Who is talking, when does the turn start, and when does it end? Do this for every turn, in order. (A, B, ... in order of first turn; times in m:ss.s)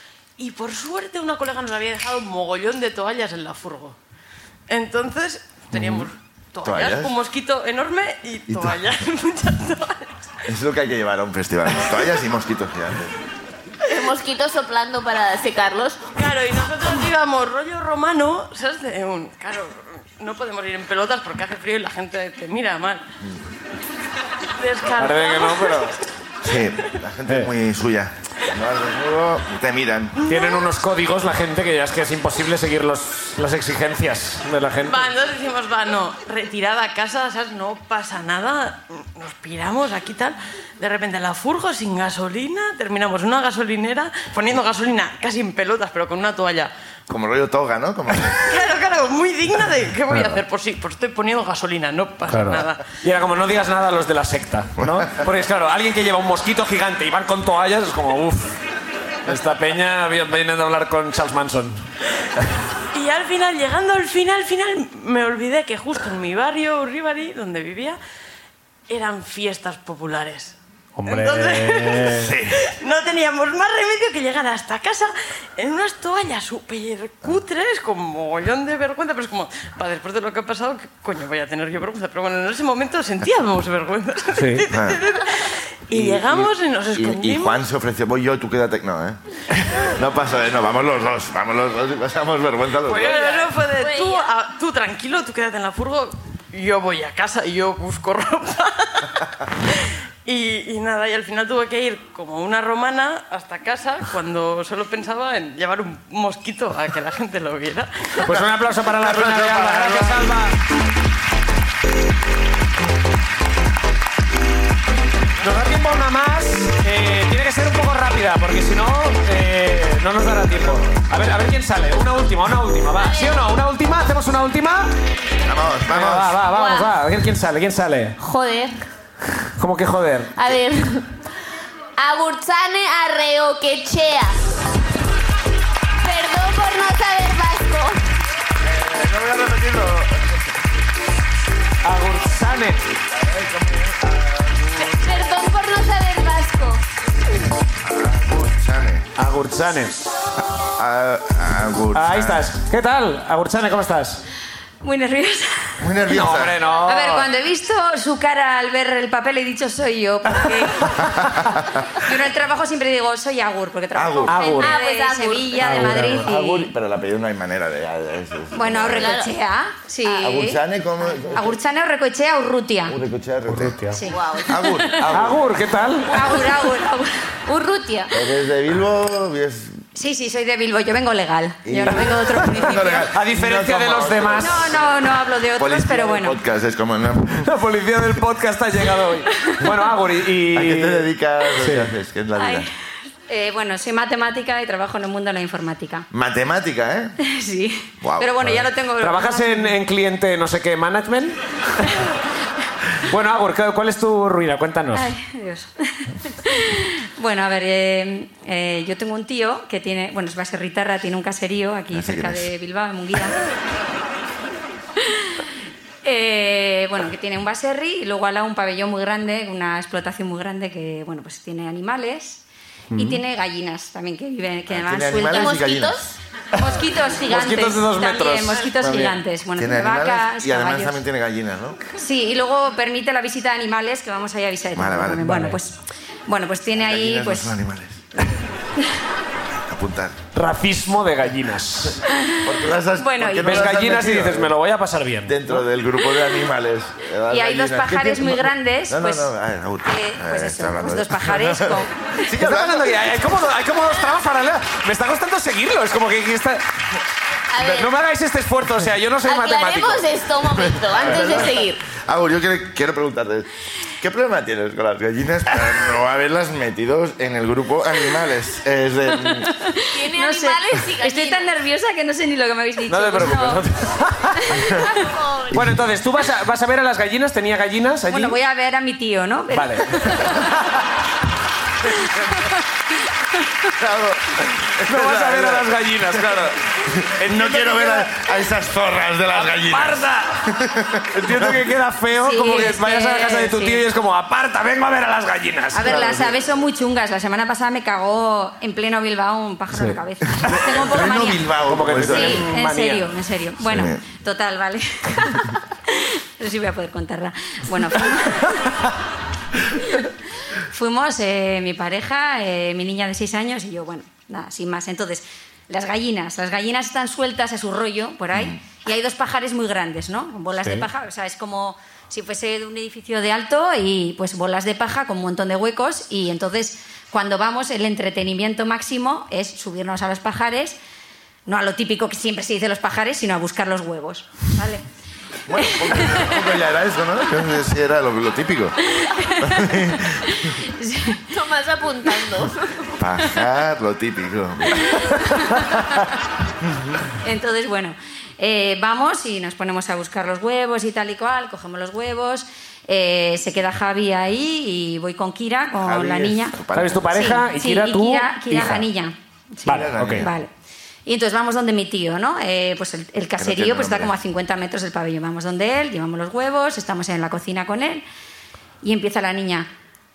0:00.4-0:04.0 A
0:04.7-0:10.1 A
0:06.6-0:07.1 B
0:08.5-0:08.8 B
0:10.5-0:13.2 B
0:13.8-0:16.0 C
0:16.2-0:23.0 A
0:24.5-0:26.0 A
0:25.0-0:26.0 D
0:26.4-0:30.2 B
0:30.2-0:30.7 A
0:30.3-0:35.1 D
0:34.8-0:46.7 A
0:47.1-0:48.5 B
0:48.4-0:52.8 A
0:50.1-0:50.4 D
0:52.3-0:58.6 D
0:54.8-0:55.1 B
0:59.3-1:01.9 D
1:02.9-1:08.0 A
1:08.9-1:27.6 A
1:11.0-1:12.5 D
1:12.3-1:12.6 B
1:24.4-1:24.6 D
1:24.7-1:25.0 B
1:25.9-1:33.2 B
1:32.8-1:48.2 A
1:33.1-1:34.3 C
1:48.2-1:50.6 D
1:48.3-1:50.3 B
1:55.4-2:04.9 D
2:03.0-2:03.4 C
2:05.4-2:06.4 B
2:05.9-2:08.2 D
2:06.5-2:06.9 C
2:08.2-2:08.8 C
2:09.6-2:10.5 D
2:10.4-2:11.1 C
2:12.0-2:14.4 C
2:16.0-2:18.0 C
2:18.6-2:20.5 B
2:21.8-2:22.9 D
2:23.1-2:25.2 B
2:24.8-2:26.8 C
2:27.8-2:29.1 B
2:29.2-2:30.1 D
2:30.8-2:32.5 B
2:31.9-2:34.2 D
2:34.8-2:35.9 E
2:35.8-2:36.6 B
2:36.1-2:37.3 D
2:36.8-2:41.0 E
2:40.3-2:40.9 D
2:41.1-2:41.6 B
2:42.0-2:46.7 E
2:44.0-2:44.4 B
2:44.3-2:44.8 D
2:44.6-2:45.7 C
2:45.6-2:46.3 D
2:45.8-2:49.2 B
2:48.5-2:50.6 E
2:49.0-2:49.3 C
2:50.2-2:51.6 B
2:51.2-2:53.0 E
2:52.9-2:53.8 B
2:53.5-2:54.0 D
2:53.9-2:55.1 E
2:54.1-2:54.6 C
2:54.5-2:55.6 B
2:55.1-2:56.3 D
2:56.1-2:57.2 E
2:57.5-2:58.1 C
2:58.1-2:59.8 B
3:00.0-3:03.1 E
3:01.6-3:05.0 B
3:01.8-3:04.6 D
3:04.4-3:06.4 E
3:05.6-3:07.5 B
3:07.4-3:11.1 D
3:09.4-3:09.8 E
3:10.5-3:12.7 B
3:11.6-3:11.9 D
3:12.4-3:12.7 E
3:13.3-3:16.1 E
3:16.1-3:17.2 B
3:17.2-3:19.8 E
3:18.0-3:18.5 B
3:18.4-3:22.0 D
3:23.0-3:25.1 D
3:24.9-3:33.4 E
3:31.9-3:32.5 B
3:35.0-3:35.3 E
3:36.0-3:42.4 E
3:42.9-3:43.2 D
3:42.9-3:45.6 E
3:44.7-3:46.0 B
3:45.3-3:46.2 C
3:46.6-3:51.0 E
3:47.3-3:49.2 D
3:49.6-3:51.8 B
3:52.0-3:57.6 E
3:54.8-3:55.4 B
3:55.2-3:55.6 D
3:56.8-3:58.0 B
3:59.6-4:00.2 B
4:00.3-4:02.0 D
4:02.1-4:03.7 E
4:02.4-4:04.5 B
4:03.4-4:05.6 D
4:05.3-4:12.9 B
4:07.3-4:09.3 E
4:09.8-4:11.9 E
4:12.3-4:16.6 D
4:17.5-4:17.9 C
4:17.6-4:20.1 D
4:19.2-4:21.8 C
4:20.5-4:23.5 B
4:24.0-4:29.5 B
4:29.2-4:33.7 E
4:29.9-4:31.5 C
4:32.9-4:34.7 D
4:34.4-4:34.9 E
4:34.6-4:34.8 B
4:34.9-4:35.6 C
4:35.5-4:38.4 D
4:38.1-4:40.5 E
4:39.5-4:40.7 D
4:41.9-4:43.0 E
4:43.8-4:45.7 B
4:44.8-4:48.3 D
4:46.8-4:51.7 B
4:49.3-4:50.5 D
4:51.1-4:56.3 D
4:52.1-4:53.8 E
4:55.7-5:01.4 E
4:59.7-5:00.0 D
5:00.4-5:02.5 B
5:01.6-5:03.2 D
5:02.0-5:08.7 E
5:03.7-5:04.0 B
5:10.7-5:30.8 E
5:18.3-5:18.6 B
5:20.6-5:20.9 D
5:31.5-5:34.8 E
5:35.5-5:38.8 B
5:35.6-5:36.4 E
5:38.8-5:41.3 E
5:39.4-5:40.6 B
5:41.3-5:42.9 C
5:43.0-5:45.0 B
5:44.8-5:45.8 E
5:46.6-5:47.0 B
5:47.2-5:56.6 E
5:55.8-5:57.2 B
5:56.7-5:58.9 D
5:57.1-6:00.5 E
5:59.7-6:00.3 D
5:59.7-6:00.3 B
6:01.1-6:08.0 E
6:03.4-6:04.2 B
6:08.8-6:09.7 E